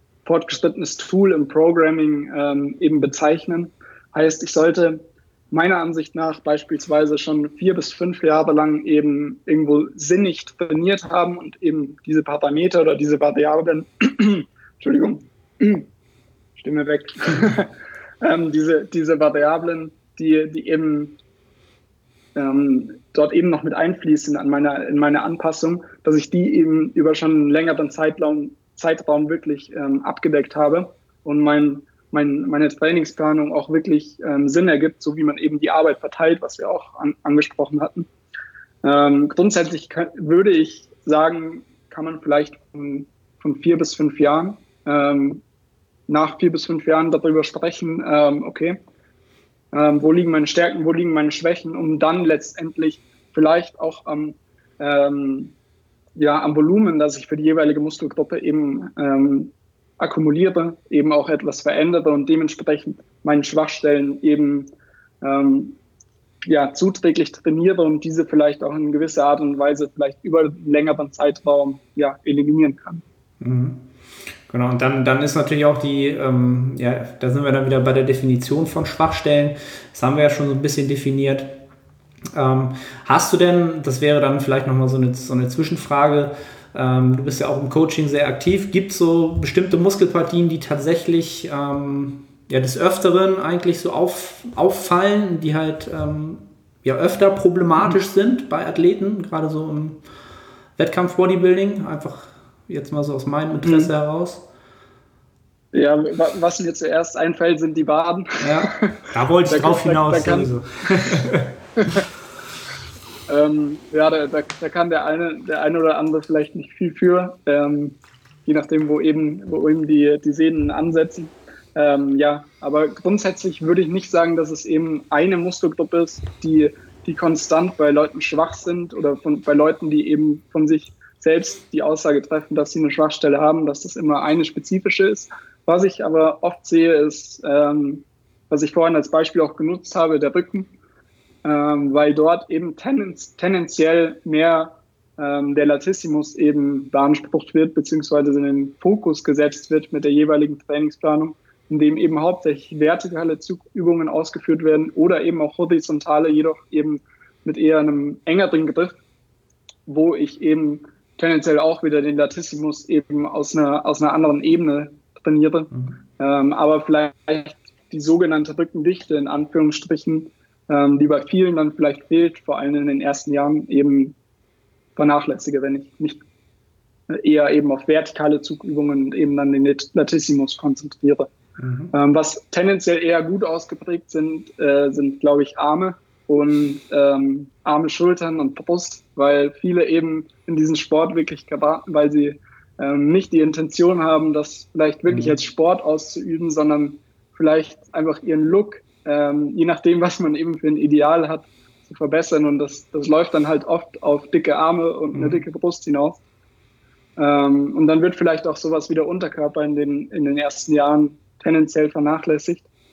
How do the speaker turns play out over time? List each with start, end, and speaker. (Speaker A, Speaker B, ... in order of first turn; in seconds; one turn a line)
Speaker A: 0.2-15.9
Speaker A: 16.6-21.2
Speaker A: 22.3-38.1
Speaker A: 38.8-45.4
Speaker A: 46.1-48.8
Speaker A: 49.7-55.5
Speaker A: 56.1-64.7
Speaker A: 65.2-65.8
Speaker A: 66.5-73.0
Speaker B: 73.4-73.8
Speaker B: 74.5-81.5
Speaker B: 82.3-100.0
Speaker B: 100.8-104.4
Speaker A: 103.6-103.9
Speaker A: 105.7-111.2
Speaker B: 108.4-111.5
Speaker A: 111.8-112.0
Speaker A: 113.3-140.7
Speaker A: 141.4-159.0
Speaker A: 159.9-174.2
Speaker A: 174.9-176.2
Speaker A: 177.1-181.3
Speaker B: 181.6-181.9
Speaker A: 181.9-206.2
Speaker B: 195.1-195.3
Speaker B: 205.1-205.4
Speaker A: 207.2-212.7